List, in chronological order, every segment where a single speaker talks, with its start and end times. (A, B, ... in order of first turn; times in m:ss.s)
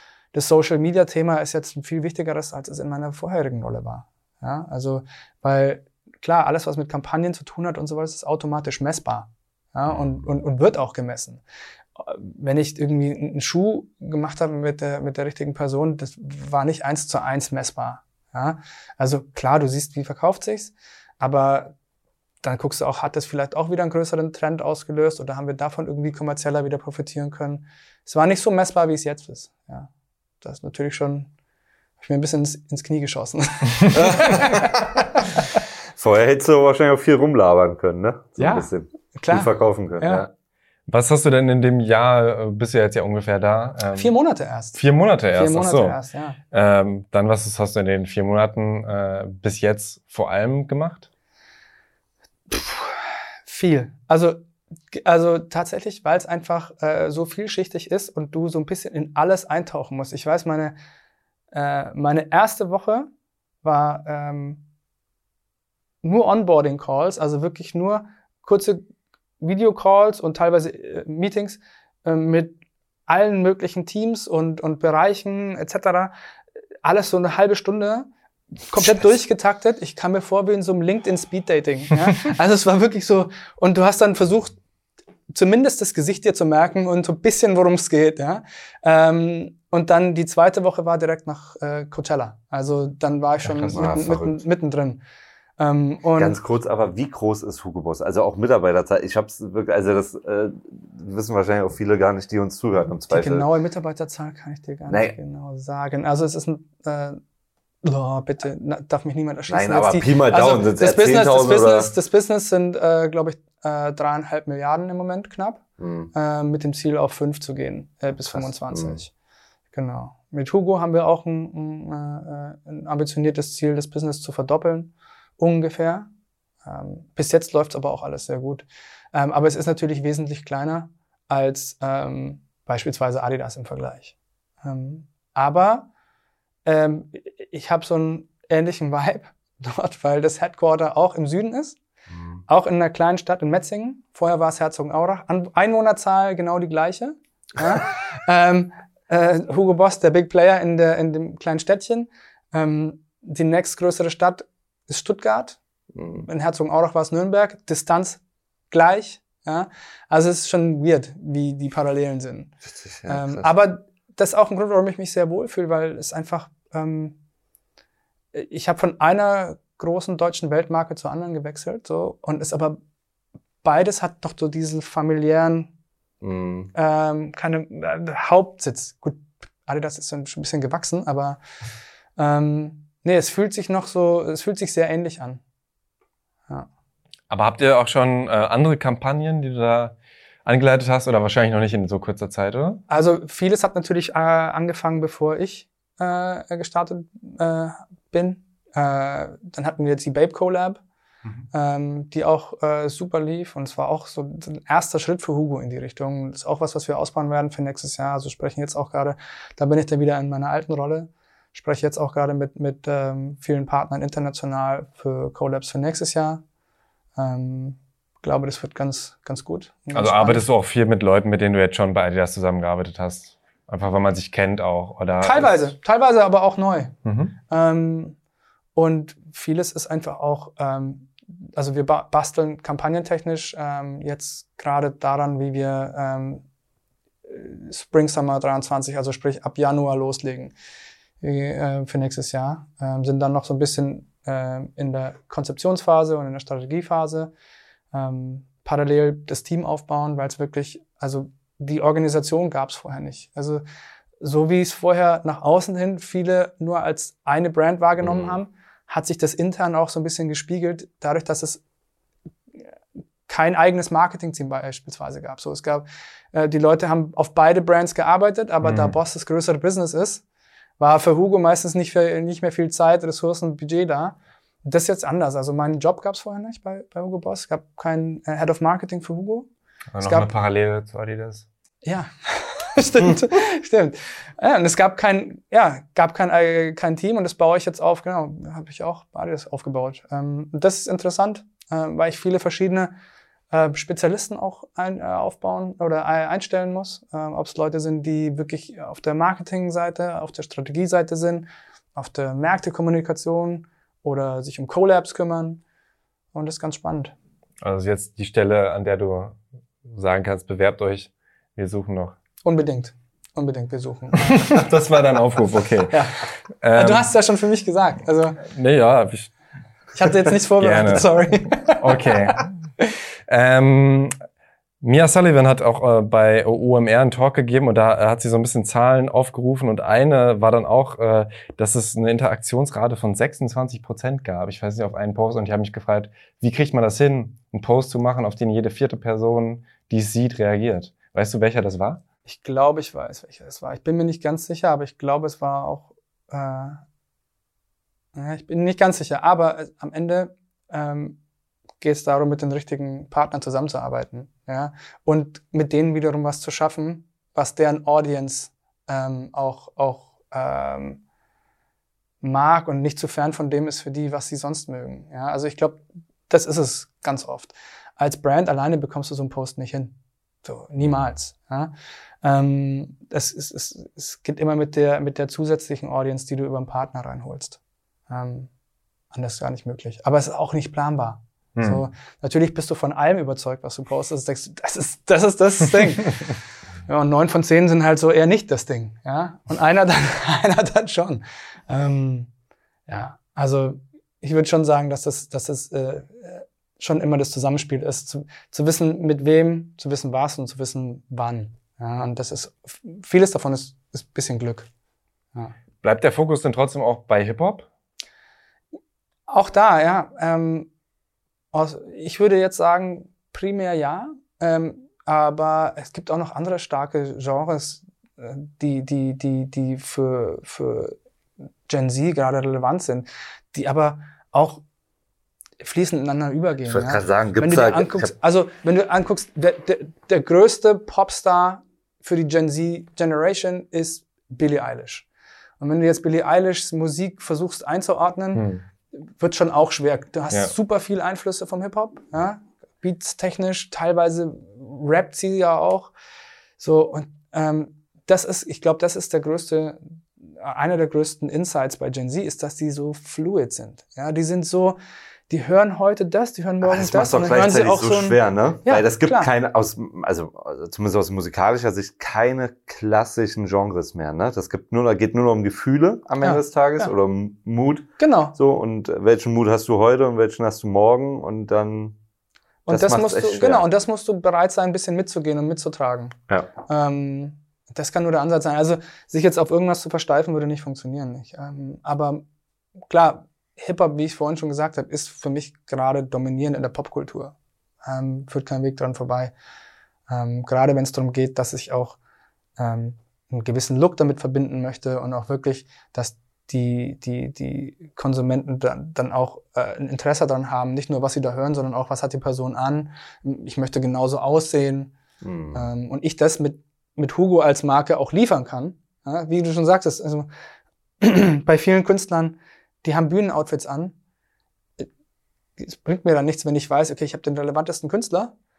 0:00.3-0:11.4 A
0:12.0-0:21.7 A
0:22.4-0:29.9 A
0:30.4-0:31.3 A
0:32.0-0:34.7 A
0:33.9-0:35.0 B
0:36.0-0:40.3 B
0:38.4-0:40.3 A
0:40.9-0:44.1 C
0:44.0-0:44.8 A
0:44.7-0:46.0 C
0:45.3-0:46.4 A
0:46.5-0:51.1 C
0:52.5-1:00.8 A
1:01.5-1:03.1 A
1:03.6-1:04.6 A
1:06.0-1:08.9 A
1:09.4-1:16.1 A
1:16.8-1:18.1 A
1:18.7-1:24.6 A
1:25.3-1:35.0 A
1:33.7-1:34.4 B
1:35.6-1:36.4 A
1:36.2-1:43.5 B
1:43.1-1:47.2 A
1:44.9-1:45.1 B
1:47.8-1:55.6 A
1:49.5-1:51.9 B
1:55.8-1:56.1 B
1:56.1-1:59.1 A
1:58.3-1:59.0 B
1:59.7-2:06.1 A
2:06.6-2:15.9 A
2:16.6-2:21.8 A
2:22.1-2:22.4 B
2:22.5-2:35.6 A
2:35.9-2:36.2 B
2:36.1-2:42.5 A
2:42.6-2:43.5 B
2:43.1-2:47.2 A
2:48.3-2:52.8 A
2:53.6-2:55.7 A
2:56.2-2:56.7 B
2:56.7-3:01.4 A
3:02.2-3:05.4 A
3:07.3-3:09.9 C
3:10.4-3:12.8 C
3:12.9-3:20.8 A
3:21.5-3:36.4 A
3:37.2-3:40.4 A
3:39.9-3:45.7 C
3:45.2-3:46.9 A
3:47.0-3:47.3 C
3:47.5-3:48.2 A
3:48.7-3:56.4 A
3:57.3-4:00.5 A
4:01.2-4:07.3 A
4:07.9-4:13.6 A
4:14.2-4:21.6 A
4:18.0-4:18.4 B
4:23.3-4:30.2 A
4:28.6-4:29.0 C
4:30.8-4:39.5 A
4:39.9-4:41.4 C
4:40.0-4:40.3 A
4:41.8-4:52.9 A
4:53.5-5:05.6 A
5:06.3-5:07.1 A
5:07.6-5:12.2 C
5:12.4-5:14.7 A
5:14.3-5:16.0 C
5:15.9-5:18.4 A
5:16.6-5:17.1 C
5:18.4-5:19.3 C
5:19.9-5:22.4 A
5:20.6-5:21.1 C
5:21.7-5:22.5 C
5:23.3-5:24.1 C
5:24.8-5:42.0 C
5:42.2-5:46.8 A
5:48.1-5:51.2 A
5:51.8-6:01.0 A
6:02.2-6:11.7 A
6:12.2-6:18.5 A
6:19.1-6:26.3 A
6:21.6-6:21.8 C
6:26.9-6:32.3 A
6:32.9-6:44.7 A
6:45.8-6:47.7 C
6:49.3-6:50.7 A
6:51.5-7:01.0 A
7:01.7-7:04.6 A
7:05.6-7:15.0 A
7:06.7-7:08.1 B
7:15.6-7:18.5 A
7:18.3-7:18.6 C
7:19.2-7:25.9 A
7:26.6-7:34.8 A
7:35.3-7:39.3 A
7:36.6-7:52.0 B
7:46.2-7:46.9 A
7:48.0-7:48.4 A
7:52.6-7:56.2 A
7:52.7-7:53.6 B
7:56.7-8:02.2 A
8:02.9-8:09.3 A
8:10.1-8:12.0 A
8:12.6-8:24.9 A
8:25.2-8:25.7 B
8:25.5-8:30.3 A
8:31.0-8:33.9 A
8:35.6-8:38.3 A